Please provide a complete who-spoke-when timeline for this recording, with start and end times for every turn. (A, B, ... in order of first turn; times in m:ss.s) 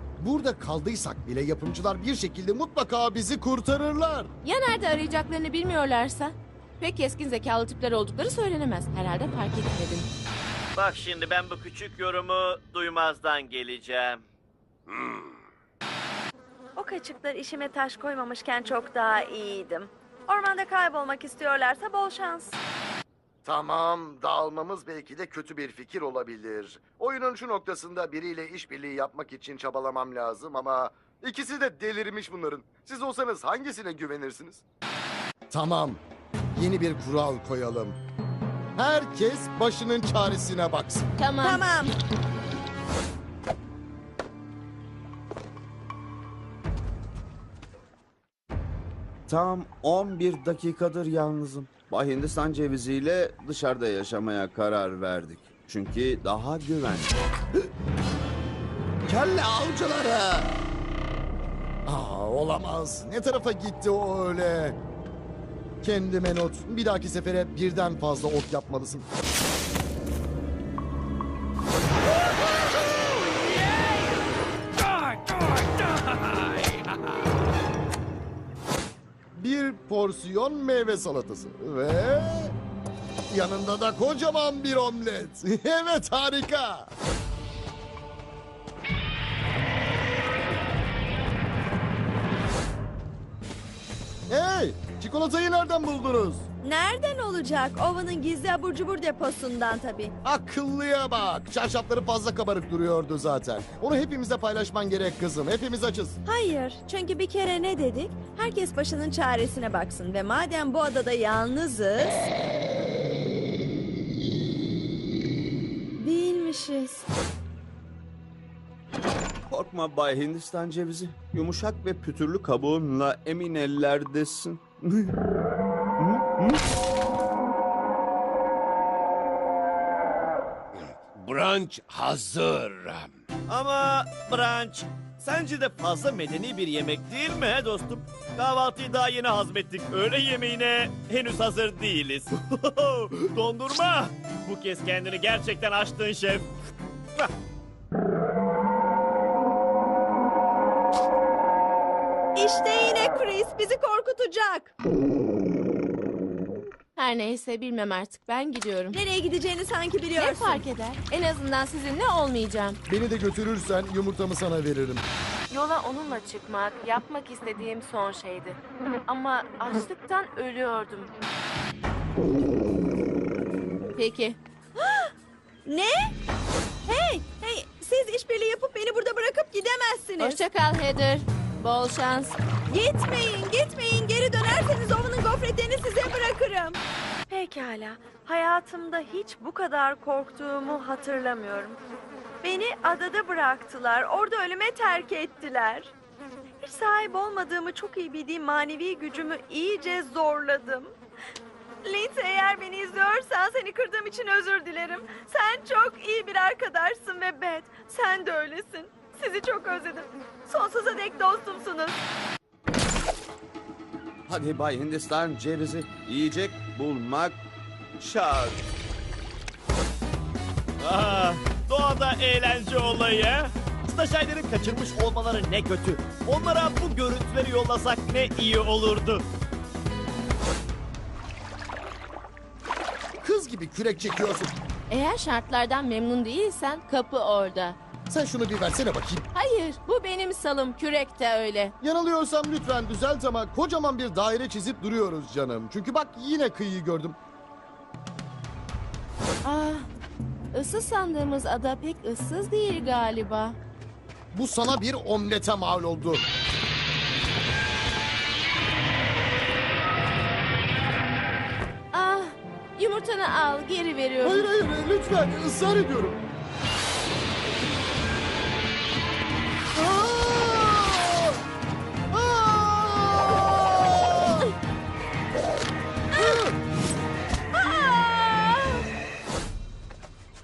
0:00.2-0:04.3 A
0:04.4-0:10.1 B
0:10.7-0:14.2 C
0:14.9-0:15.3 D
0:16.8-0:22.6 E
0:23.4-0:34.6 A
0:35.5-0:36.0 A
0:36.5-0:38.0 A
0:38.8-0:41.1 A
0:41.2-0:41.6 B
0:41.4-0:41.9 E
0:49.3-0:57.1 F
0:59.0-1:00.5 F
1:01.8-1:04.8 A
1:05.8-1:09.1 A
1:19.3-1:22.5 A
1:23.3-1:26.9 A
1:34.3-1:36.4 A
1:36.6-1:40.1 E
1:40.2-1:46.2 A
1:46.2-1:52.2 E
1:56.0-1:57.0 E
1:59.5-2:05.1 F
2:06.0-2:06.6 F
2:10.8-2:13.1 D
2:13.5-2:26.5 C
2:32.4-2:34.7 E
2:37.0-2:39.0 B
2:38.9-2:40.6 E
2:40.2-2:42.8 B
2:42.9-2:45.0 A
2:45.5-2:51.1 B
2:54.0-2:54.4 B
2:54.8-2:55.1 E
2:55.6-2:56.1 E
2:56.8-3:00.4 E
3:00.2-3:02.4 B
3:02.7-3:11.8 E
3:12.4-3:15.9 E
3:16.6-3:20.9 E
3:21.8-3:32.0 E
3:34.3-3:37.4 F
3:38.0-3:38.6 F
3:40.8-3:49.2 C
3:53.2-3:54.5 A
3:54.9-3:57.8 B
3:58.1-3:59.3 A
3:59.3-4:01.7 B
4:01.8-4:07.2 A
4:09.4-4:09.9 B
4:10.5-4:13.6 B
4:14.3-4:16.2 A
4:21.9-4:24.5 B
4:24.2-4:26.2 A
4:29.7-4:31.3 A
4:32.1-4:34.5 A
4:36.2-4:36.5 A
4:37.6-4:38.8 B